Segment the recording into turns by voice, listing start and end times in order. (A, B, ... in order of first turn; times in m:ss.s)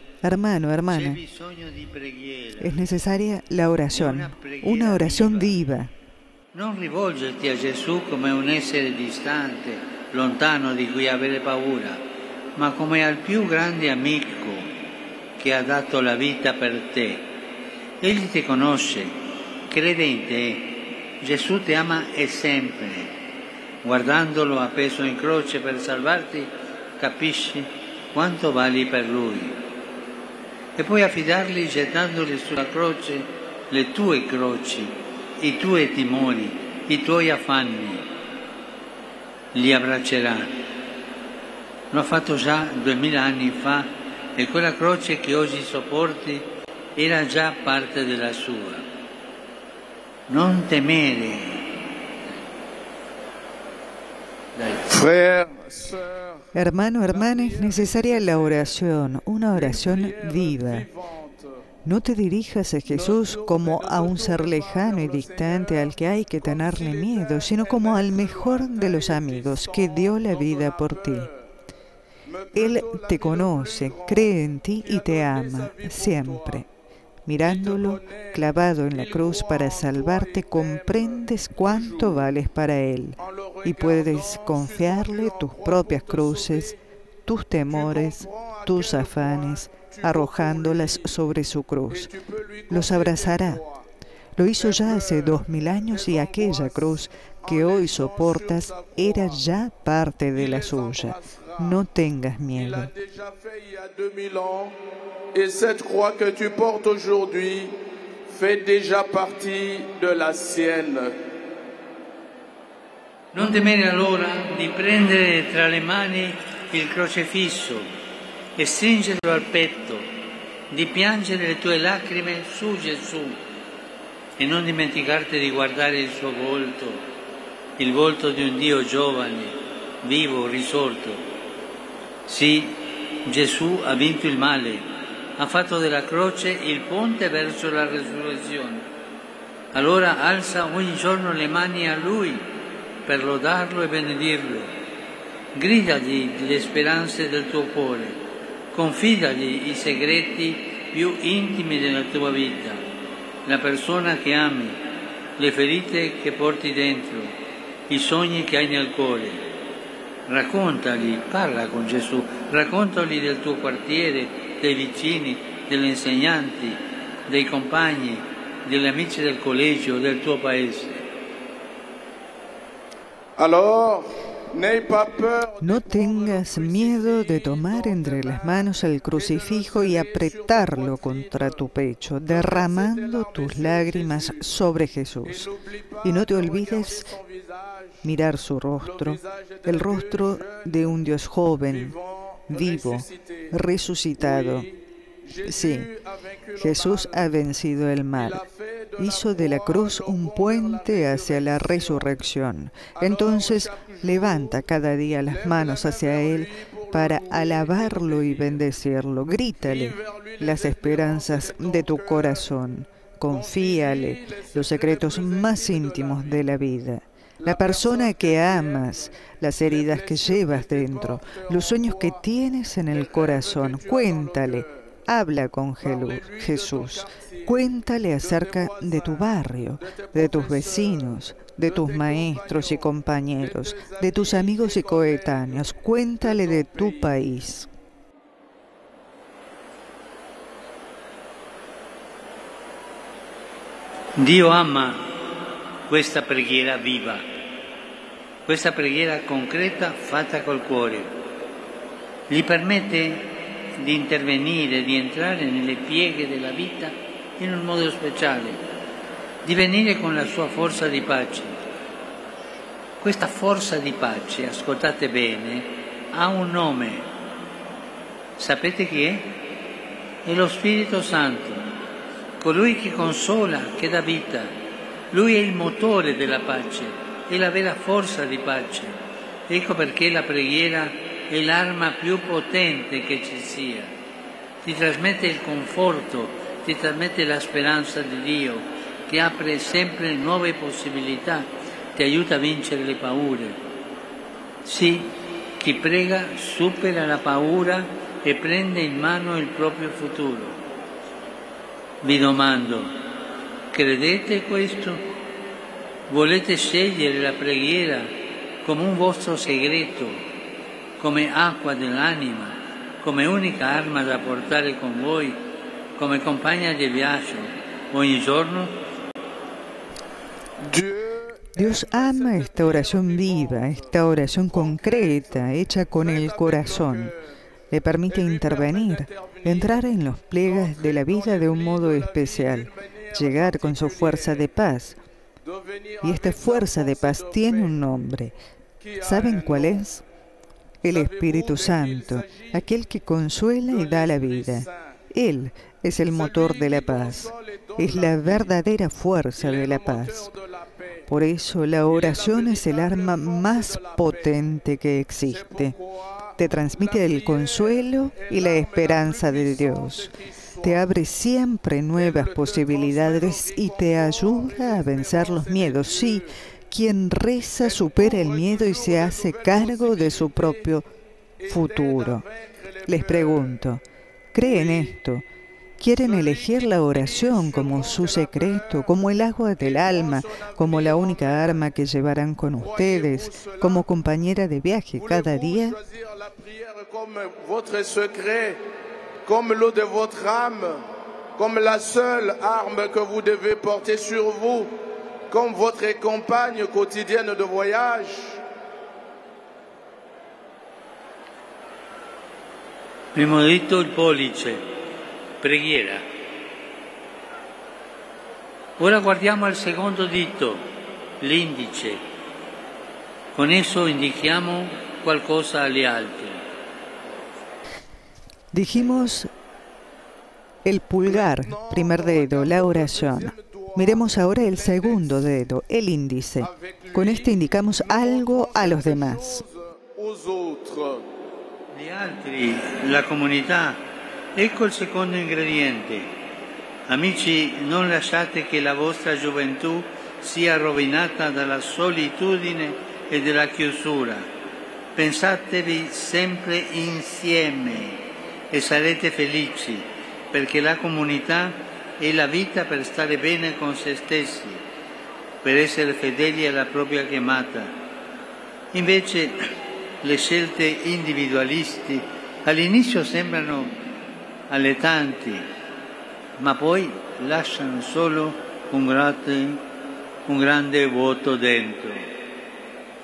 0:00.2-0:01.2 A
0:00.9-0:02.8 B
0:02.6-0:05.9 A
0:03.9-0:05.6 B
0:06.5-0:12.0 B
0:12.6-0:14.7 B
0:15.4-0:17.3 B
0:18.0-0:19.2 B
0:19.7-0:23.1 B
0:23.8-0:29.6 B
0:30.8-0:38.1 B
0:39.5-0:40.5 B
0:41.9-0:48.8 B
0:50.3-0:51.6 B
0:54.6-0:54.9 B
0:54.9-0:56.4 C
0:56.5-1:00.9 A
0:57.1-0:58.8 C
0:59.5-1:01.6 C
1:01.8-1:11.3 A
1:02.9-1:11.5 C
1:12.3-1:16.7 C
1:12.6-1:16.7 A
1:17.3-1:26.8 A
1:17.4-1:22.3 C
1:23.2-1:26.8 C
1:27.3-1:32.1 A
1:27.7-1:31.2 C
1:31.9-1:33.9 C
1:32.7-1:33.6 A
1:34.4-1:42.9 A
1:34.6-1:39.5 C
1:40.3-1:41.8 C
1:42.5-1:44.8 C
1:45.3-1:51.2 C
1:53.3-1:57.9 B
1:58.6-2:00.1 B
2:00.7-2:03.4 B
2:04.4-2:07.0 B
2:07.8-2:11.2 B
2:12.3-2:14.8 B
2:15.4-2:18.9 B
2:19.7-2:22.5 B
2:23.1-2:24.7 B
2:25.6-2:28.2 B
2:28.7-2:32.8 B
2:33.5-2:34.8 B
2:35.4-2:37.4 B
2:37.9-2:39.4 B
2:40.3-2:51.1 B
2:53.4-3:01.7 C
2:55.6-3:05.5 A
3:02.3-3:04.7 C
3:05.2-3:08.0 C
3:06.0-3:07.1 A
3:08.0-3:12.0 A
3:08.8-3:11.0 C
3:11.7-3:13.6 C
3:12.5-3:14.7 A
3:14.2-3:17.3 C
3:15.4-3:15.9 A
3:16.6-3:18.4 A
3:18.1-3:22.2 C
3:19.0-3:57.7 A
3:23.0-3:24.6 C
3:25.3-3:28.7 C
3:29.6-3:32.5 C
3:33.3-3:36.4 C
3:37.4-3:42.2 C
3:42.9-3:45.0 C
3:45.8-3:47.6 C
3:48.2-3:57.1 C
4:04.2-4:05.1 B
4:05.9-4:07.3 B
4:08.5-4:11.1 B
4:12.3-4:18.6 B
4:19.4-4:21.6 B
4:23.0-4:27.1 B
4:28.4-4:29.4 B
4:30.2-4:31.6 B
4:32.4-4:34.5 B
4:35.1-4:39.0 B
4:39.5-4:43.9 B
4:44.6-4:53.6 B
4:54.6-5:00.6 B
5:02.0-5:02.9 B
5:03.7-5:05.0 B
5:06.1-5:08.1 B
5:08.6-5:10.2 B
5:11.0-5:15.4 B
5:16.0-5:18.8 B
5:20.6-5:27.2 C
5:21.6-5:27.1 A
5:27.7-5:35.0 A
5:28.1-5:29.9 C
5:30.4-5:34.5 C
5:35.4-5:37.8 C
5:36.0-5:38.4 A
5:38.8-5:39.8 C
5:39.0-5:40.0 A
5:40.8-5:50.3 A
5:40.9-5:42.7 C
5:43.7-5:45.0 C
5:46.1-5:48.6 C
5:49.4-5:51.1 C
5:51.1-5:55.8 A
5:51.8-5:54.4 C
5:55.3-6:00.9 C
5:56.4-6:00.1 A
6:00.6-6:10.9 A
6:01.9-6:06.3 C
6:07.6-6:10.8 C
6:11.4-6:13.6 C
6:11.5-6:12.2 A
6:12.9-6:13.8 A
6:14.3-6:15.3 A
6:14.4-6:15.0 C
6:15.8-6:25.8 A
6:16.0-6:19.0 C
6:19.6-6:21.6 C
6:22.6-6:23.9 C
6:25.0-6:28.6 C
6:29.2-6:30.8 C
6:31.4-6:34.7 C
6:35.3-6:38.4 C
6:43.1-6:44.6 B
6:45.4-6:46.0 B
6:48.8-6:50.6 B
6:51.2-6:52.0 B
6:53.3-6:56.4 B
6:58.5-6:59.3 A
6:58.7-6:59.1 C
7:00.6-7:09.4 A
7:01.0-7:05.2 C
7:06.4-7:11.1 C
7:11.7-7:13.8 B
7:14.4-7:16.2 B
7:16.9-7:24.3 B
7:25.0-7:34.6 B
7:35.4-7:37.7 B
7:38.7-7:39.4 B
7:40.0-7:43.7 B
7:44.5-7:45.5 B
7:46.4-7:49.6 B
7:50.3-7:52.1 B